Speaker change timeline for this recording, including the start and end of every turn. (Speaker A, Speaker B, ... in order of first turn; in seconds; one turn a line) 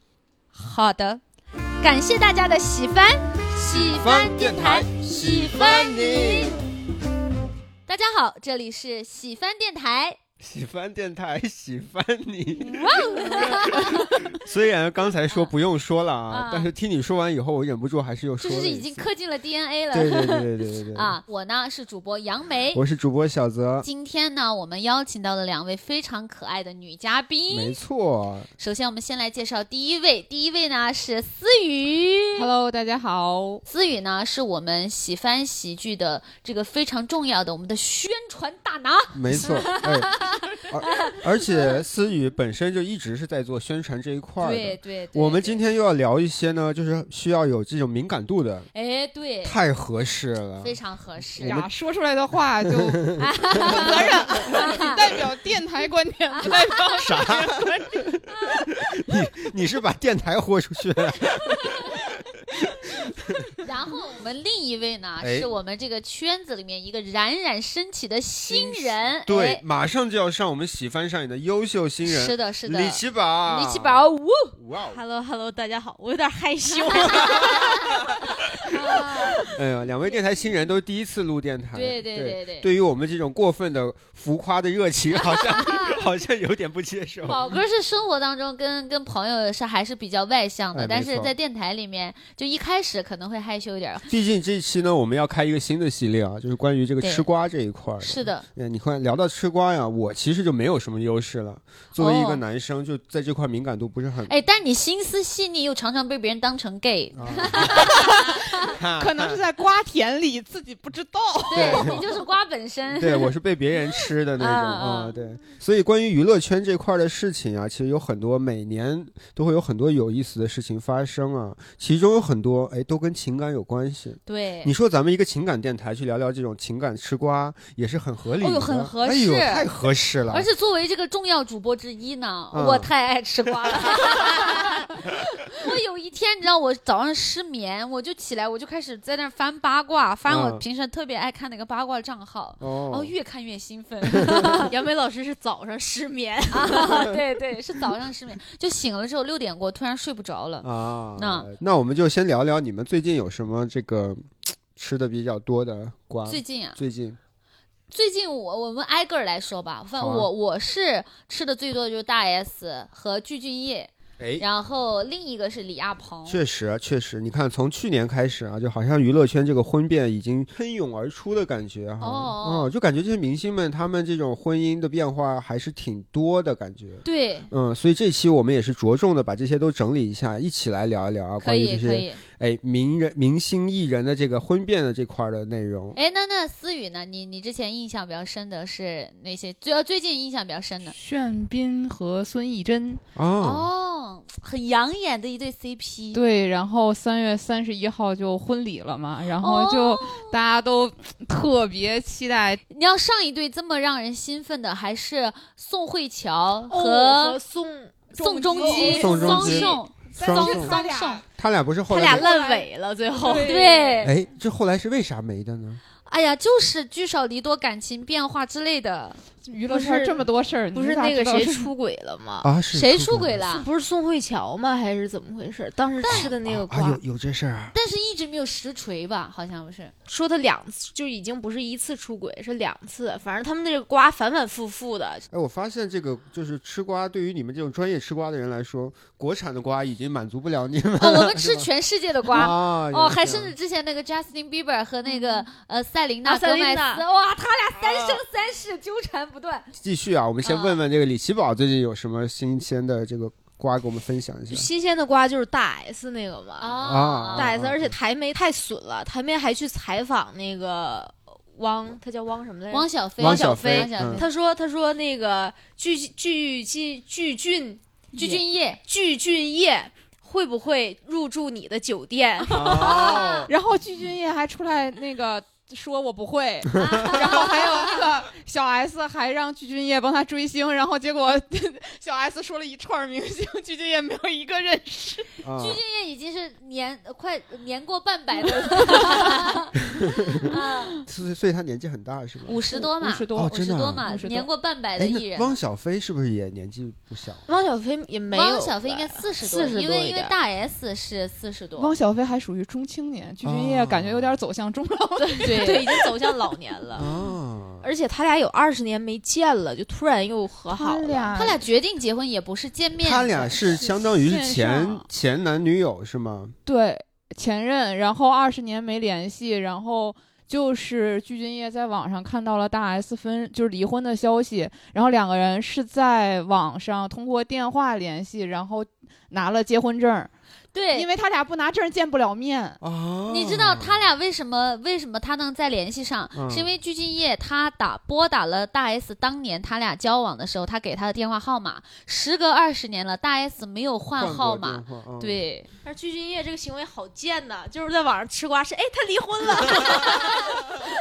Speaker A: 0.5-1.2
Speaker A: 1.8-6.6
Speaker B: 3.7-6.6
Speaker A: 7.9-10.2
Speaker B: 10.4-19.1
Speaker A: 12.6-14.3
Speaker A: 16.3-16.7
Speaker A: 18.4-22.8
Speaker B: 19.9-21.2
Speaker B: 22.7-23.9
Speaker A: 23.8-27.8
Speaker B: 27.5-28.5
Speaker A: 28.6-32.5
Speaker C: 32.3-33.6
Speaker A: 33.7-41.5
Speaker B: 39.1-48.7
Speaker A: 44.4-45.6
Speaker A: 48.7-49.6
Speaker B: 49.4-51.7
Speaker A: 50.6-51.6
Speaker C: 51.4-58.2
Speaker B: 52.8-53.1
Speaker A: 53.2-55.1
Speaker B: 53.7-54.2
Speaker A: 56.4-57.0
Speaker B: 57.0-58.2
Speaker B: 58.8-63.5
Speaker A: 63.6-69.6
Speaker B: 65.2-65.5
Speaker B: 68.4-75.0
Speaker A: 72.0-74.5
Speaker D: 74.9-79.5
Speaker A: 76.9-77.6
Speaker B: 77.0-78.0
Speaker A: 78.6-79.5
Speaker B: 79.4-87.5
Speaker A: 81.7-82.7
Speaker A: 85.2-86.0
Speaker A: 87.2-94.1
Speaker B: 90.7-91.3
Speaker B: 94.1-104.3
Speaker A: 97.0-97.3
Speaker A: 98.0-98.5
Speaker A: 102.0-102.4
Speaker A: 104.3-108.5
Speaker B: 107.2-108.0
Speaker C: 107.8-112.0
Speaker B: 108.7-109.4
Speaker A: 111.5-113.2
Speaker B: 111.5-112.0
Speaker B: 112.9-130.5
Speaker A: 114.4-115.1
Speaker A: 124.2-124.7
Speaker A: 128.4-129.7
Speaker A: 130.3-144.7
Speaker B: 132.5-132.9
Speaker B: 133.7-134.3
Speaker B: 140.3-140.6
Speaker B: 142.6-143.1
Speaker D: 144.5-147.2
Speaker A: 146.5-151.5
Speaker B: 150.6-157.2
Speaker A: 156.2-156.8
Speaker A: 157.9-166.4
Speaker B: 160.0-160.3
Speaker B: 164.2-164.4
Speaker B: 166.3-186.0
Speaker A: 172.0-172.7
Speaker A: 177.0-177.5
Speaker A: 181.4-182.2
Speaker A: 185.9-190.9
Speaker C: 190.8-193.0
Speaker B: 193.2-193.7
Speaker A: 193.4-196.2
Speaker C: 196.1-202.6
Speaker A: 199.4-200.3
Speaker A: 202.7-207.4
Speaker D: 206.7-209.0
Speaker A: 208.1-211.2
Speaker C: 208.1-211.2
Speaker B: 208.8-210.8
Speaker B: 211.4-212.3
Speaker D: 211.9-213.9
Speaker C: 212.4-212.6
Speaker C: 213.2-213.7
Speaker A: 213.3-214.1
Speaker B: 214.0-215.8
Speaker A: 216.1-219.2
Speaker C: 219.4-221.7
Speaker D: 219.7-222.5
Speaker B: 222.4-223.4
Speaker A: 222.7-223.7
Speaker D: 223.4-227.0
Speaker A: 226.0-226.3
Speaker B: 226.0-227.7
Speaker A: 227.7-229.9
Speaker D: 230.1-235.2
Speaker B: 235.3-241.7
Speaker A: 241.0-249.7
Speaker B: 242.2-243.5
Speaker D: 245.1-245.4
Speaker D: 246.2-247.0
Speaker B: 247.8-248.2
Speaker B: 249.8-254.7
Speaker A: 250.4-250.8
Speaker D: 254.5-256.8
Speaker A: 256.6-257.5
Speaker B: 256.8-257.9
Speaker D: 257.3-267.8
Speaker A: 262.7-264.3
Speaker B: 263.2-264.2
Speaker C: 268.1-268.4
Speaker A: 268.1-268.8
Speaker D: 268.9-273.4
Speaker B: 272.5-273.5
Speaker C: 272.6-285.3
Speaker A: 272.7-273.5
Speaker B: 276.8-277.4
Speaker A: 276.8-277.4
Speaker B: 285.4-285.8
Speaker A: 285.6-289.7
Speaker C: 288.5-289.5
Speaker B: 290.0-290.5
Speaker A: 290.4-291.0
Speaker B: 291.0-292.6
Speaker A: 292.4-295.6
Speaker C: 292.7-294.5
Speaker B: 293.3-294.0
Speaker B: 295.0-297.4
Speaker D: 297.5-300.4
Speaker A: 298.3-301.9
Speaker C: 301.8-306.1
Speaker B: 303.4-304.4
Speaker D: 305.2-307.1
Speaker A: 305.4-305.8
Speaker B: 306.9-307.9
Speaker D: 307.8-311.5
Speaker C: 310.7-311.6
Speaker A: 311.3-313.8
Speaker B: 313.0-316.5
Speaker C: 313.6-315.0
Speaker C: 316.6-330.3
Speaker A: 330.7-331.1
Speaker C: 330.9-332.8
Speaker B: 332.8-334.1
Speaker A: 333.3-345.7
Speaker B: 336.3-336.7
Speaker B: 344.1-345.4
Speaker D: 345.8-350.9